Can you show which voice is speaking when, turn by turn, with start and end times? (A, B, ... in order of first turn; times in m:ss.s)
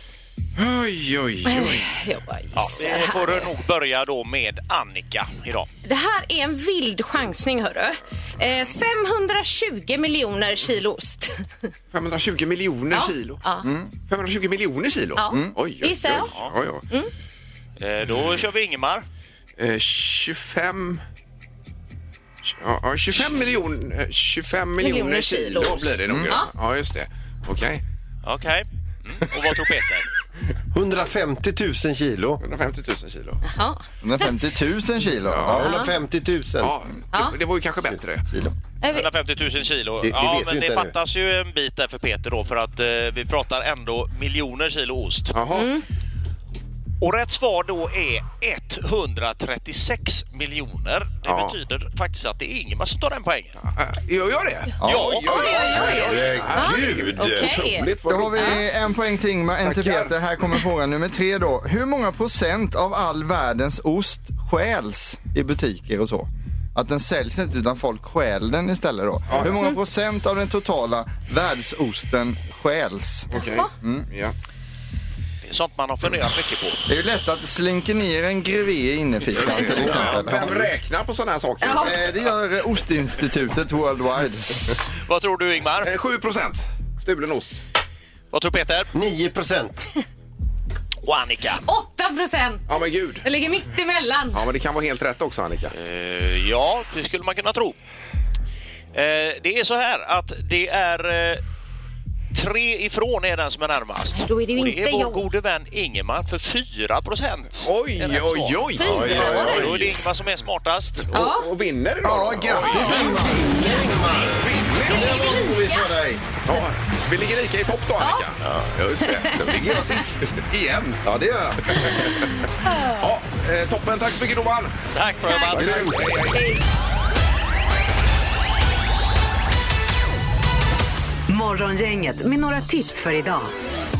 0:00.6-0:01.9 A
0:01.4-0:03.5 B
0:02.5-0:05.7 C
0:05.8-0:11.4 B
0:11.9-0:13.4 A
0:12.9-0:13.7 B
0:13.6-0:13.9 D
0:14.1-0:16.8 A
0:15.2-0:16.3 B
0:15.3-0:15.6 D
0:17.8-0:19.0 C
0:19.6-0:21.0 A
0:22.4-0:27.8 A
0:24.8-0:26.5 B
0:26.1-0:26.3 D
0:28.2-0:30.1 C
0:30.7-0:32.4 E
0:32.4-0:33.4 A
0:33.4-0:34.3 B
0:34.0-0:35.7 D
0:35.3-0:35.7 A
0:35.4-0:36.8 E
0:35.6-0:35.9 B
0:36.6-0:38.3 A
0:38.8-0:39.1 B
0:38.9-0:45.3 C
0:40.0-0:40.9 E
0:45.3-0:45.7 A
0:45.5-0:45.8 B
0:47.0-0:53.6 C
0:51.2-0:51.6 A
0:53.7-0:58.8 A
0:54.8-0:55.1 D
0:54.8-0:55.8 C
0:55.2-0:58.6 B
0:55.7-0:57.6 E
0:58.1-1:13.3 D
0:59.6-1:00.1 A
1:09.3-1:09.6 A
1:13.3-1:13.7 B
1:13.3-1:14.3 A
1:15.4-1:16.8 C
1:16.9-1:20.7 D
1:19.3-1:22.1 A
1:21.6-1:21.9 B
1:21.6-1:24.6 D
1:25.1-1:25.9 C
1:25.8-1:27.6 A
1:28.3-1:28.9 C
1:28.9-1:29.8 E
1:31.0-1:31.6 C
1:31.6-1:34.4 B
1:32.7-1:33.2 A
1:34.3-1:35.7 A
1:35.7-1:37.8 C
1:38.9-1:41.4 C
1:42.3-1:51.1 C
1:44.1-1:45.3 B
1:47.6-1:50.0 A
1:48.8-1:49.7 B
1:48.8-1:49.8 E
1:51.1-1:51.5 B
1:51.1-1:53.2 A
1:52.0-1:53.5 D
1:52.7-1:54.2 B
1:53.0-1:56.2 E
1:54.4-1:55.3 A
1:54.9-1:56.0 B
1:56.4-2:02.3 A
1:58.0-1:58.2 B
1:58.4-1:58.8 E
1:59.0-1:59.5 B
1:59.3-2:00.4 E
2:01.0-2:01.6 E
2:02.6-2:03.1 B
2:03.0-2:04.8 A
2:04.9-2:06.1 C
2:05.3-2:06.6 B
2:05.5-2:06.5 A
2:11.3-2:13.5 F